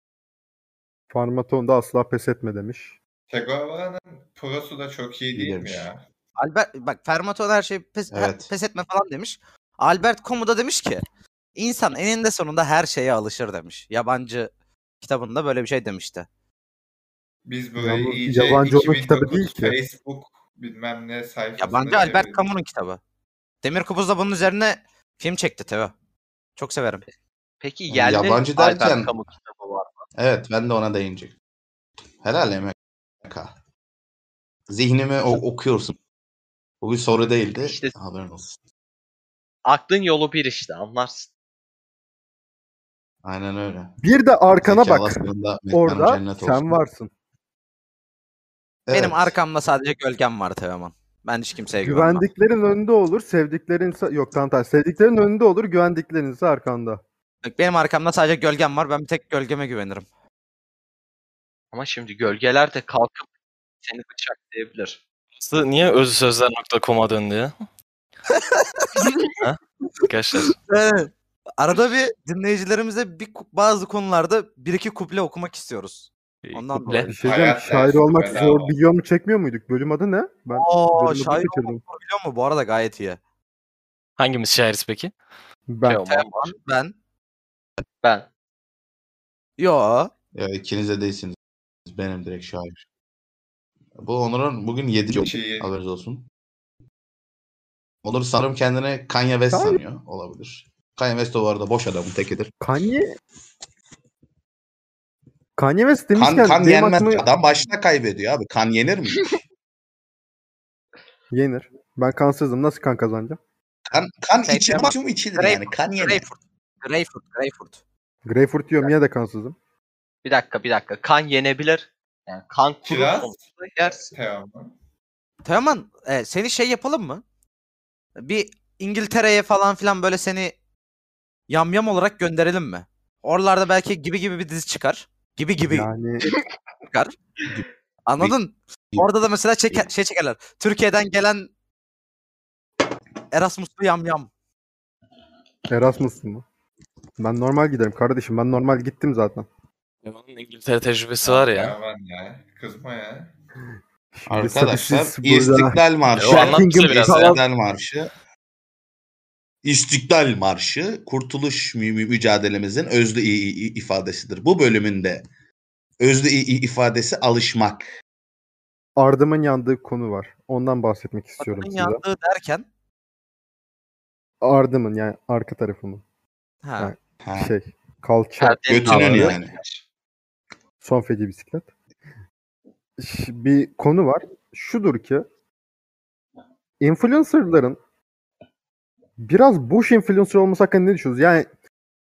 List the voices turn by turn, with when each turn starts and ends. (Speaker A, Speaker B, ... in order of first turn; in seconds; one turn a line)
Speaker A: 1.1-3.0
Speaker B: 3.3-6.0
Speaker C: 5.3-5.9
Speaker D: 6.4-11.0
Speaker C: 8.1-8.5
Speaker D: 11.6-14.5
Speaker D: 15.0-16.3
Speaker B: 17.4-22.4
Speaker A: 17.8-19.8
Speaker D: 21.6-23.0
Speaker D: 23.6-25.9
Speaker D: 26.6-27.0
Speaker E: 27.6-30.1
Speaker C: 27.9-29.1
Speaker C: 30.2-31.4
Speaker C: 32.2-33.5
Speaker C: 34.7-36.0
Speaker C: 36.8-38.6
Speaker E: 37.6-37.9
Speaker E: 39.6-41.3
Speaker C: 43.2-44.0
Speaker A: 44.0-47.1
Speaker C: 44.5-46.8
Speaker C: 48.9-49.4
Speaker D: 48.9-52.2
Speaker A: 51.8-57.0
Speaker D: 57.5-60.1
Speaker E: 61.7-63.3
Speaker E: 63.8-65.0
Speaker F: 65.4-67.6
Speaker D: 68.3-69.2
Speaker F: 69.4-70.6
Speaker D: 70.4-77.1
Speaker F: 76.4-77.1
Speaker A: 77.1-81.8
Speaker B: 77.2-78.7
Speaker D: 80.6-83.2
Speaker F: 84.2-85.1
Speaker A: 85.7-86.0
Speaker D: 85.8-87.0
Speaker F: 85.8-86.5
Speaker D: 89.6-90.1
Speaker C: 90.3-91.4
Speaker C: 91.9-92.8
Speaker C: 94.0-96.3
Speaker B: 95.1-95.7
Speaker C: 98.0-102.5
Speaker A: 99.5-99.8
Speaker A: 102.6-103.1
Speaker A: 105.6-107.3
Speaker C: 106.2-109.4
Speaker A: 111.3-113.4
Speaker C: 113.9-116.3
Speaker D: 114.5-117.8
Speaker A: 118.3-119.5
Speaker E: 120.2-124.1
Speaker B: 122.8-124.7
Speaker D: 125.5-127.2
Speaker D: 128.2-130.6
Speaker D: 131.5-135.9
Speaker A: 135.7-136.3
Speaker D: 138.1-141.5
Speaker D: 143.3-144.3
Speaker A: 145.7-146.4
Speaker A: 147.2-149.5
Speaker F: 150.0-151.8
Speaker B: 151.2-153.3
Speaker A: 154.2-157.3
Speaker C: 154.3-158.1
Speaker F: 156.1-157.4
Speaker C: 159.6-165.2
Speaker C: 166.0-167.9
Speaker A: 169.0-172.0
Speaker D: 171.4-172.7
Speaker A: 174.4-176.0
Speaker D: 176.6-176.9
Speaker A: 176.8-179.4
Speaker C: 177.2-177.5
Speaker E: 178.4-179.8
Speaker C: 178.7-179.6
Speaker A: 180.8-181.7
Speaker A: 183.0-185.2
Speaker A: 186.8-187.8
Speaker A: 189.2-191.5